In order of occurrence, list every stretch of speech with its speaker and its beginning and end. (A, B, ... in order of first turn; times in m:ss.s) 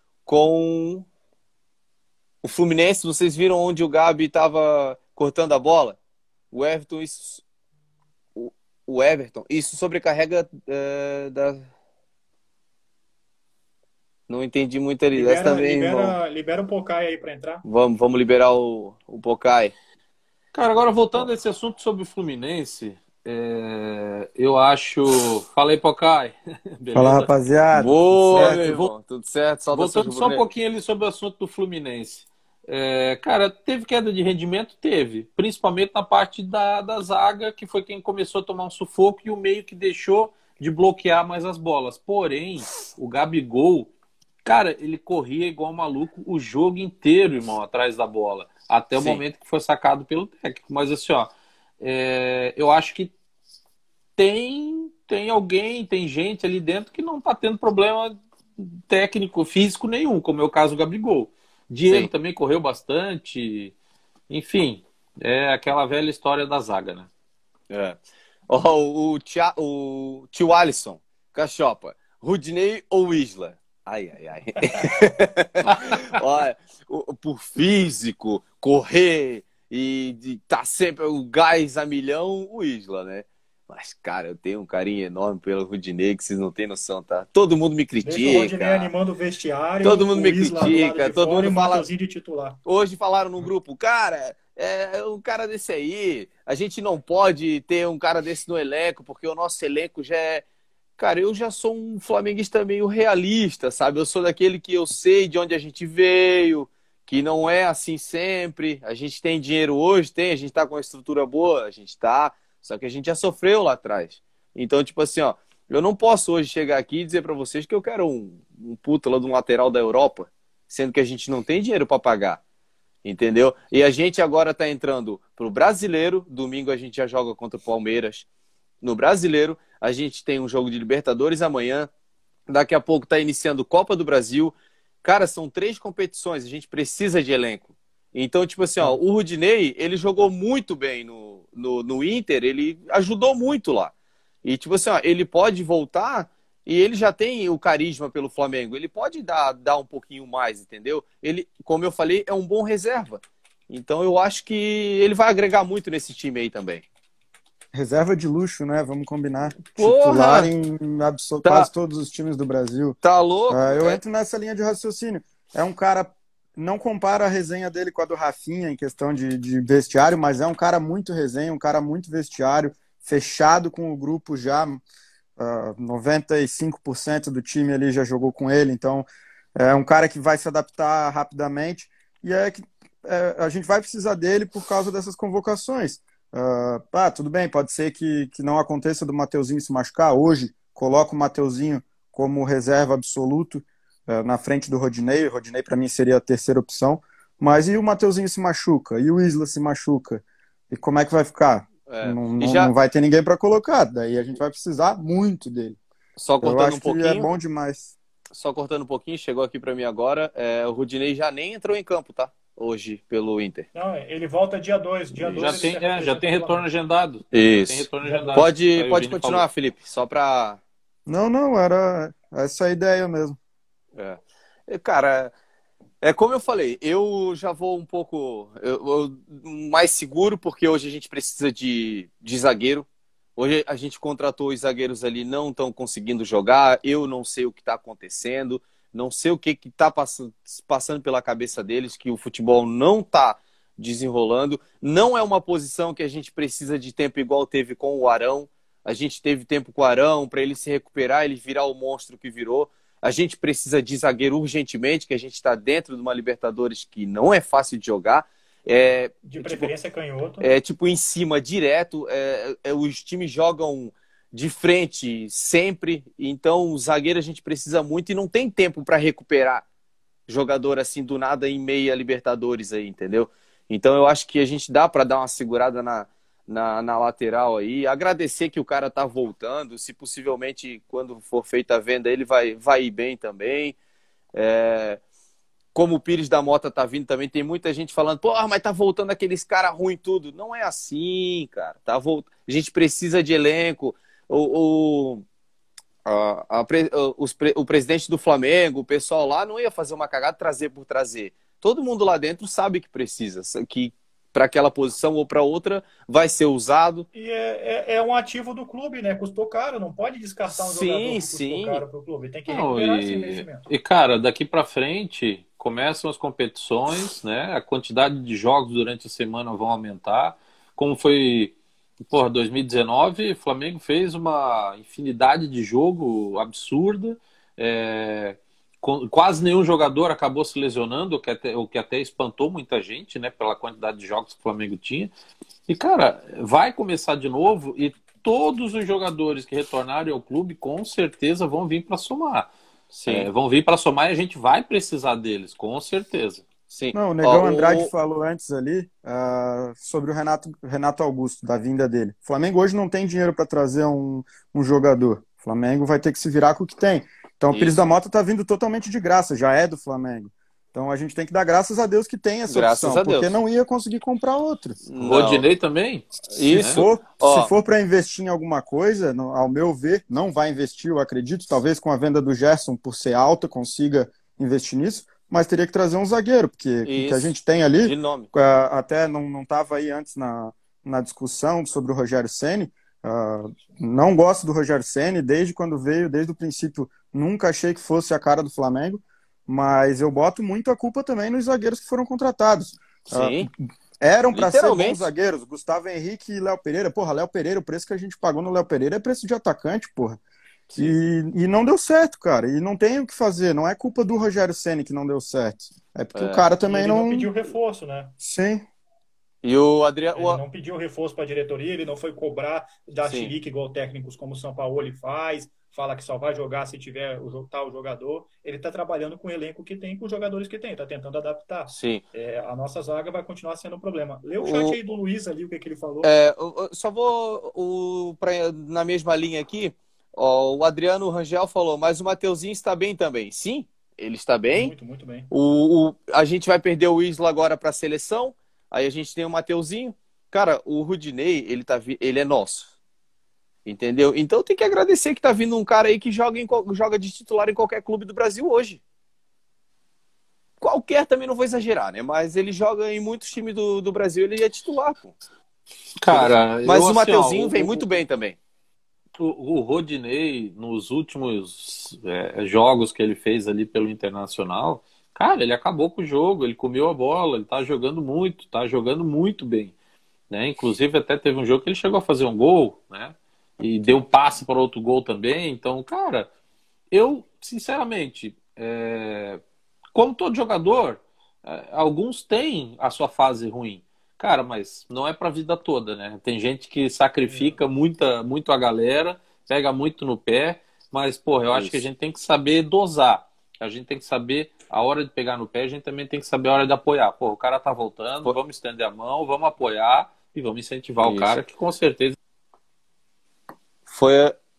0:00.2-0:01.0 A
0:02.4-0:06.0 A
0:06.5-0:07.4 A
0:08.3-0:11.6 A
0:14.3-0:16.2 A
0:15.1-0:17.6 B
0:17.6-0:19.7 A
0:20.5-0:27.3 C
0:26.9-0:28.6 D
0:27.7-0:30.5 A
0:28.3-0:28.9 C
0:29.7-0:43.9 C
0:44.4-0:53.1 C
0:49.0-0:49.2 A
0:54.2-1:03.7 C
1:04.3-1:07.1 C
1:07.7-1:08.0 A
1:08.5-1:28.9 A
1:28.0-1:32.6 B
1:29.8-1:31.9 A
1:32.6-1:40.4 A
1:41.0-2:02.4 A
2:03.0-2:08.2 A
2:08.8-2:11.9 A
2:12.5-2:23.9 A
2:24.4-2:36.8 A
2:37.7-2:43.0 D
2:39.8-2:40.5 A
2:41.4-2:41.7 A
2:43.0-2:44.0 A
2:43.5-2:54.8 D
2:55.4-3:25.8 D
3:21.9-3:22.7 A
3:26.2-3:27.3 A
3:26.4-3:27.9 D
3:28.3-3:33.6 A
3:33.7-3:36.6 B
3:35.2-3:35.7 A
3:35.3-3:39.4 C
3:37.3-3:40.6 A
3:38.0-3:38.5 B
3:41.1-3:43.4 D
3:44.0-3:45.3 A
3:46.0-3:52.8 A
3:53.4-4:19.7 A
4:19.2-4:20.5 B
4:20.4-4:29.6 A
4:30.3-4:43.8 A
4:44.3-4:45.0 A
4:45.7-4:55.2 A
4:56.0-5:07.1 A
5:07.1-5:13.7 B
5:10.5-5:11.8 A
5:12.5-5:21.6 C
5:22.1-5:35.1 C
5:35.7-5:46.4 C
5:42.9-5:43.3 A
5:46.7-5:47.9 A
5:46.9-6:04.9 D
5:57.5-5:57.8 A
6:02.4-6:03.4 A
6:04.8-6:05.4 A
6:05.0-6:06.8 C
6:06.3-6:07.5 A
6:06.7-6:40.2 D
6:16.8-6:18.3 A
6:33.1-6:33.5 A
6:34.3-6:35.1 A
6:40.7-6:41.0 A
6:40.7-6:47.3 D
6:46.1-6:46.4 A
6:46.6-6:48.2 B
6:48.2-6:48.6 D
6:49.4-6:50.4 A
6:50.1-7:06.1 B
6:53.0-6:53.3 A
7:01.7-7:02.0 A
7:04.4-7:04.8 A
7:06.0-7:14.7 A
7:14.5-7:15.3 B
7:15.3-7:22.7 A
7:23.6-7:28.8 A
7:30.6-7:35.2 A
7:36.0-7:38.0 C
7:36.1-7:38.4 A
7:39.2-7:49.7 C
7:50.3-7:56.3 C
7:56.9-7:59.4 C
7:59.9-8:22.2 C
8:07.3-8:07.6 B
8:11.5-8:11.8 A
8:21.0-8:21.4 A
8:23.9-8:24.4 A